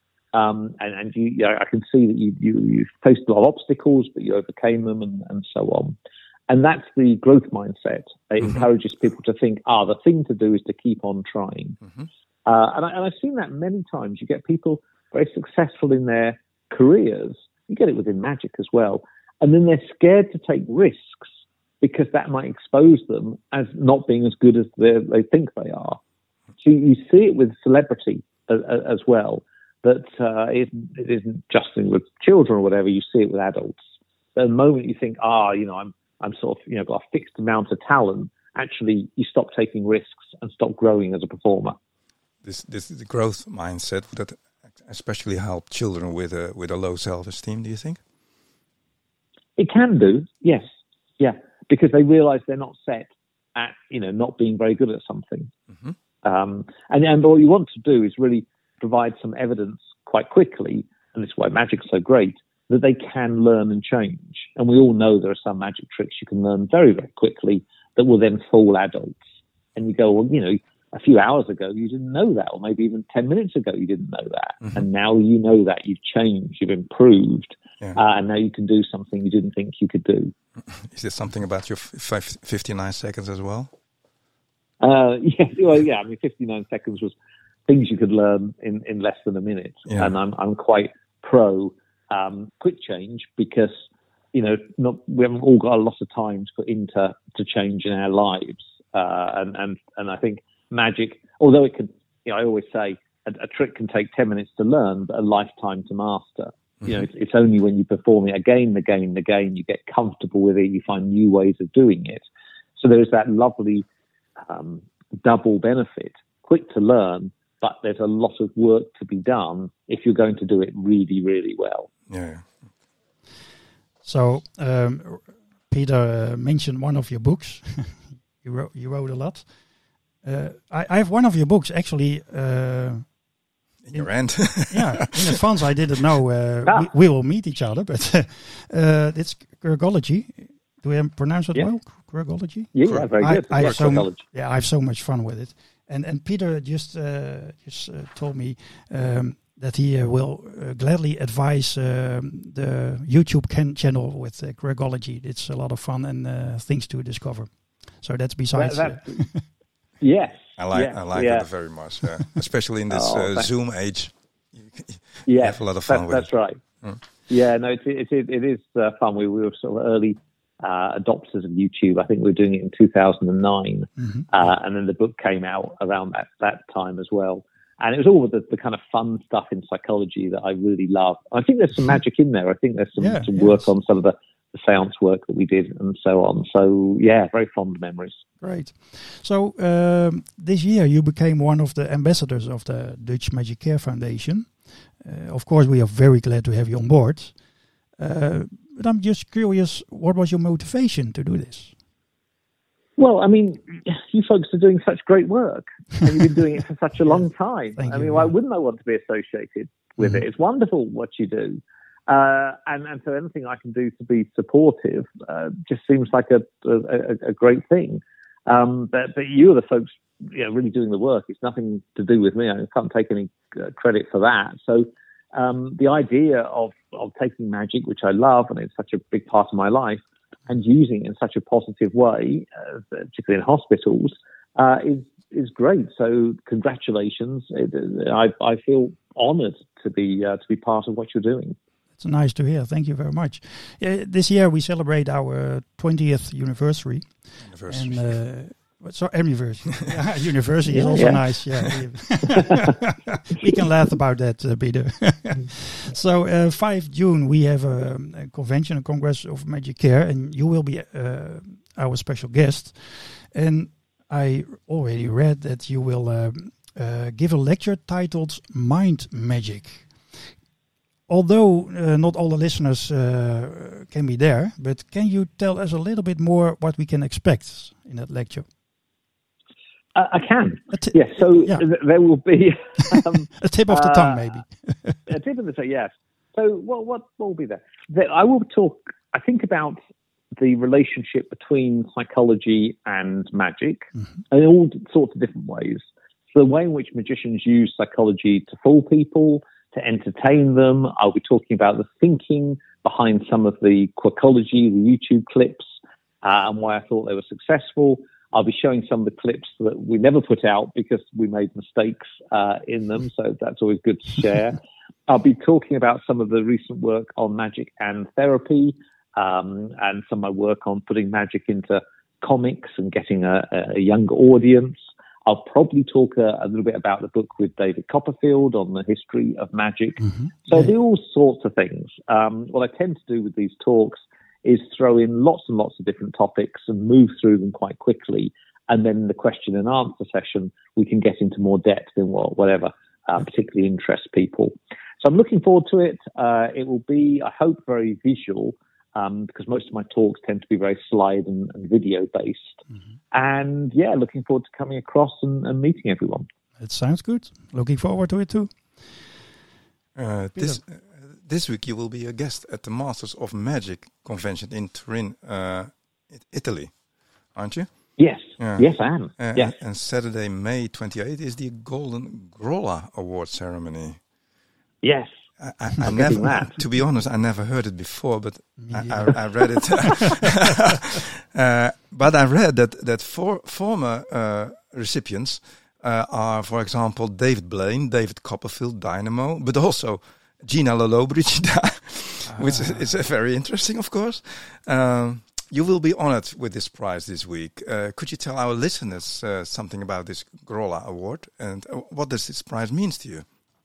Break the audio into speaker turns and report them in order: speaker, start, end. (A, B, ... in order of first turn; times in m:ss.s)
0:00.3-0:06.0 A
0:06.5-0:11.8 A
0:12.4-0:21.3 A
0:21.8-0:26.0 A
0:26.6-0:33.8 A
0:34.3-0:41.8 A
0:42.4-0:48.0 B
0:49.6-0:55.5 A
0:56.2-1:09.2 A
1:09.8-1:20.3 A
1:20.6-1:23.7 B
1:24.8-1:27.1 A
1:27.7-1:33.7 A
1:29.9-1:30.1 B
1:34.3-1:52.2 A
1:52.8-1:53.9 A
1:54.4-2:01.9 A
2:02.1-2:02.5 B
2:04.0-2:09.5 C
2:10.2-2:13.1 C
2:13.8-2:15.1 B
2:13.9-2:39.4 C
2:22.7-2:24.2 A
2:22.8-2:24.0 B
2:38.5-2:39.1 A
2:40.0-2:41.5 A
2:40.5-2:46.3 B
2:42.9-2:43.5 A
2:45.2-2:46.6 A
2:47.3-3:08.2 A
2:54.0-2:54.2 C
3:03.0-3:03.7 C
3:08.4-3:17.3 C
3:18.0-3:21.7 C
3:23.0-4:01.6 A
3:27.8-3:28.3 C
4:02.0-4:29.9 C
4:07.4-4:08.1 B
4:10.7-4:11.7 A
4:31.1-4:38.5 C
4:39.9-4:44.4 A
4:40.7-4:41.6 C
4:42.9-4:45.0 C
4:45.1-4:49.8 A
4:50.4-5:05.6 A
5:06.2-5:56.2 A
5:30.0-5:30.7 C
5:56.6-5:58.8 C
5:59.9-6:06.7 B
6:07.3-6:07.7 B
6:08.0-6:09.5 A
6:08.4-6:08.7 B
6:09.2-6:14.0 B
6:14.8-6:15.1 A
6:15.4-6:43.2 B
6:15.8-6:16.6 A
6:18.6-6:20.2 C